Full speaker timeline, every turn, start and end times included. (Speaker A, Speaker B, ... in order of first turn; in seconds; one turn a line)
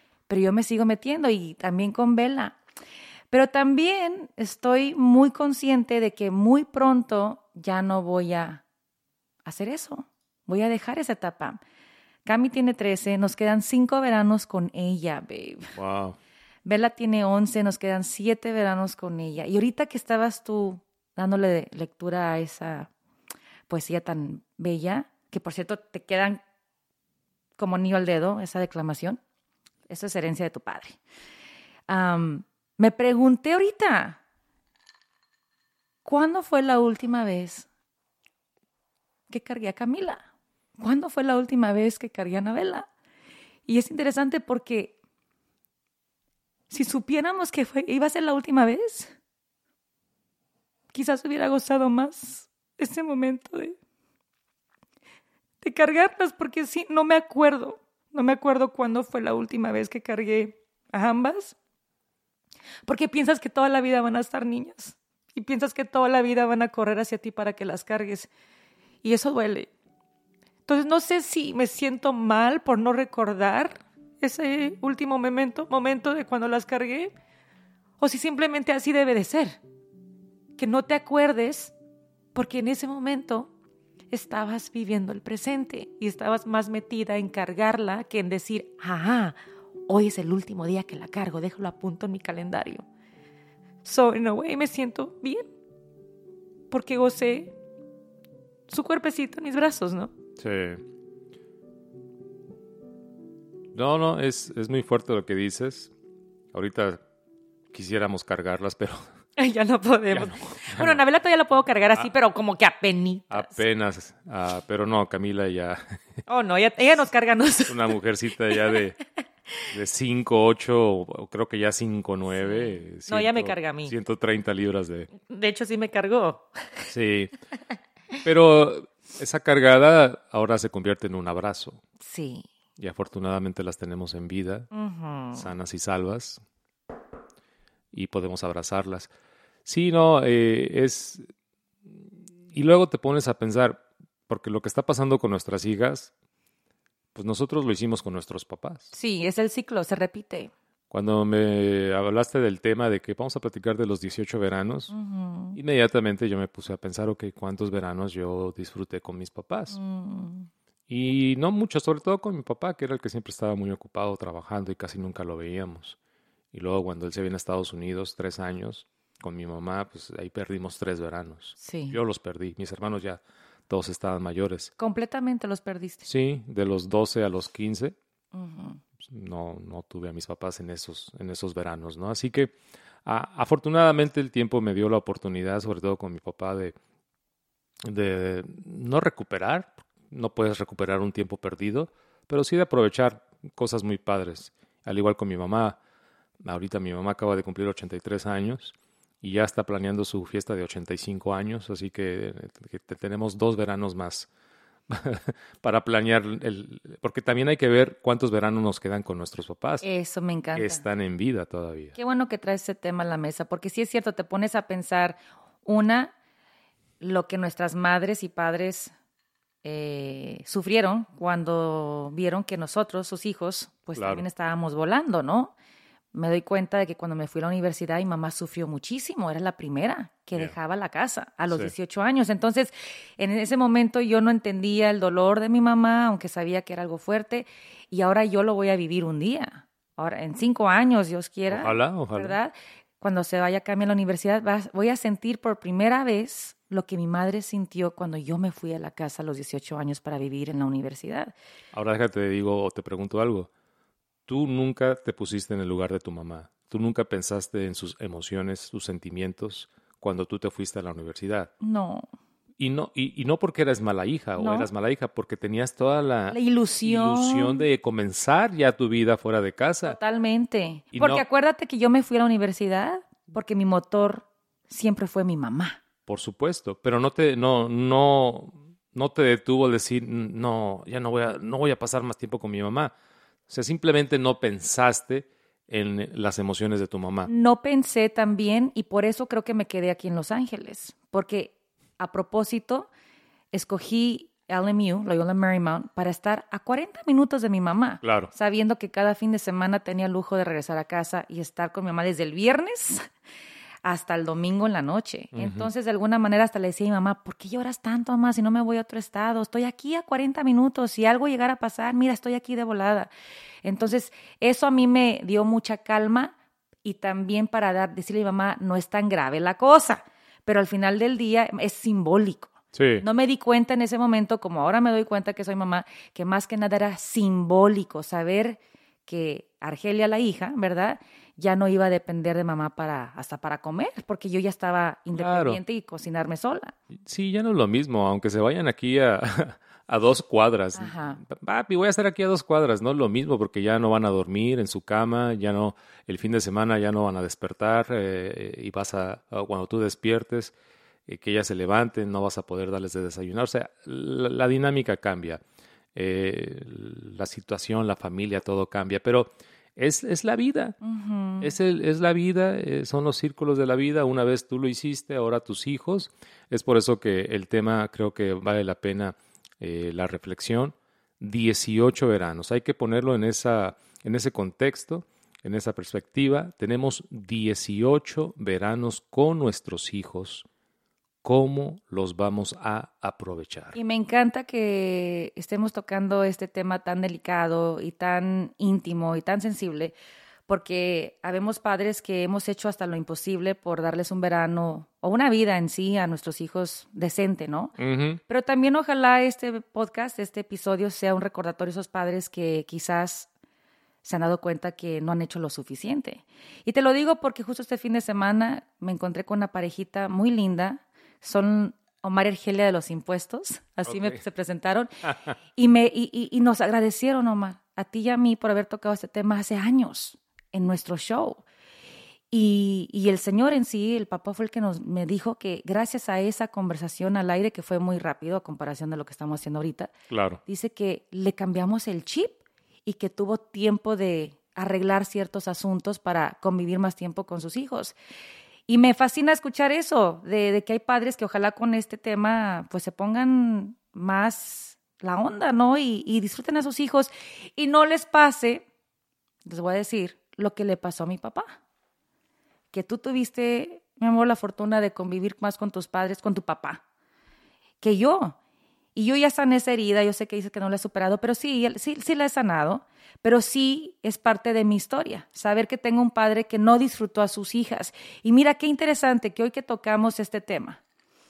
Speaker A: 0.3-2.6
Speaker A: 3.3-8.6
Speaker A: 9.4-11.6
Speaker A: 12.3-15.7
Speaker B: 15.8-16.2
Speaker A: 16.6-22.9
Speaker A: 23.7-26.4
Speaker A: 27.6-29.2
Speaker A: 29.9-31.0
Speaker A: 31.9-34.2
Speaker A: 36.0-37.7
Speaker A: 39.3-40.3
Speaker A: 40.8-42.9
Speaker A: 43.7-45.0
Speaker A: 46.7-49.1
Speaker A: 50.9-53.8
Speaker A: 55.6-61.6
Speaker A: 62.9-68.3
Speaker A: 69.0-69.7
Speaker A: 70.7-77.1
Speaker A: 78.0-79.6
Speaker A: 80.6-81.7
Speaker A: 82.3-83.5
Speaker A: 84.1-92.9
Speaker A: 93.8-95.5
Speaker A: 96.7-97.5
Speaker A: 98.7-100.1
Speaker B: 100.4-100.8
Speaker B: 103.7-105.9
Speaker B: 106.5-107.0
Speaker B: 107.7-109.0
Speaker A: 109.4-113.6
Speaker B: 110.1-111.0
Speaker B: 113.3-116.0
Speaker A: 116.3-117.9
Speaker B: 117.7-119.0
Speaker A: 118.5-118.8
Speaker B: 119.7-125.1
Speaker A: 122.3-123.9
Speaker A: 125.2-126.9
Speaker B: 126.9-127.3
Speaker B: 128.2-131.8
Speaker A: 132.0-132.5
Speaker B: 132.8-134.7
Speaker A: 134.7-135.5
Speaker B: 135.3-136.4
Speaker B: 137.9-139.1
Speaker B: 139.7-141.2
Speaker B: 142.5-146.1
Speaker B: 147.2-148.9
Speaker A: 148.9-150.5
Speaker B: 150.9-154.9
Speaker A: 154.9-155.6
Speaker B: 155.6-159.8
Speaker A: 159.7-160.5
Speaker B: 160.9-166.0
Speaker B: 166.5-174.7
Speaker A: 171.6-172.0
Speaker A: 174.8-176.1
Speaker B: 176.1-177.9
Speaker A: 178.3-178.8
Speaker B: 179.0-182.6
Speaker B: 183.1-186.8
Speaker B: 187.8-195.8
Speaker B: 196.4-204.3
Speaker B: 204.9-209.8
Speaker A: 209.8-210.8
Speaker B: 210.5-211.9
Speaker A: 212.0-216.1
Speaker A: 217.0-218.9
Speaker A: 219.6-225.5
Speaker B: 224.0-224.2
Speaker A: 226.1-251.3
Speaker B: 231.5-231.7
Speaker B: 241.5-242.4
Speaker B: 251.7-253.5
Speaker B: 254.3-261.5
Speaker A: 261.6-262.1
Speaker B: 262.6-270.0
Speaker A: 264.4-264.7
Speaker A: 266.3-267.6
Speaker A: 269.8-275.8
Speaker B: 270.9-271.2
Speaker B: 276.1-282.9
Speaker B: 283.5-287.3
Speaker A: 287.3-292.9
Speaker A: 293.5-303.1
Speaker B: 298.0-298.3
Speaker A: 303.8-313.1
Speaker B: 305.3-305.7
Speaker A: 313.6-336.8
Speaker B: 322.7-323.1
Speaker B: 335.1-335.6
Speaker B: 337.1-350.6
Speaker A: 340.8-341.2
Speaker B: 351.1-355.4
Speaker B: 355.9-360.8
Speaker A: 360.8-361.5
Speaker B: 361.4-380.5
Speaker B: 381.2-383.8
Speaker A: 383.8-390.0
Speaker A: 390.5-397.8
Speaker B: 397.8-398.2
Speaker A: 398.3-403.3
Speaker A: 404.0-414.9
Speaker B: 413.9-414.2
Speaker B: 415.1-415.4
Speaker A: 415.6-421.4
Speaker A: 422.3-429.9
Speaker B: 430.1-430.4
Speaker A: 430.5-438.0
Speaker A: 438.7-448.6
Speaker A: 449.4-451.6
Speaker A: 452.7-456.8
Speaker A: 457.8-458.4
Speaker A: 458.9-470.8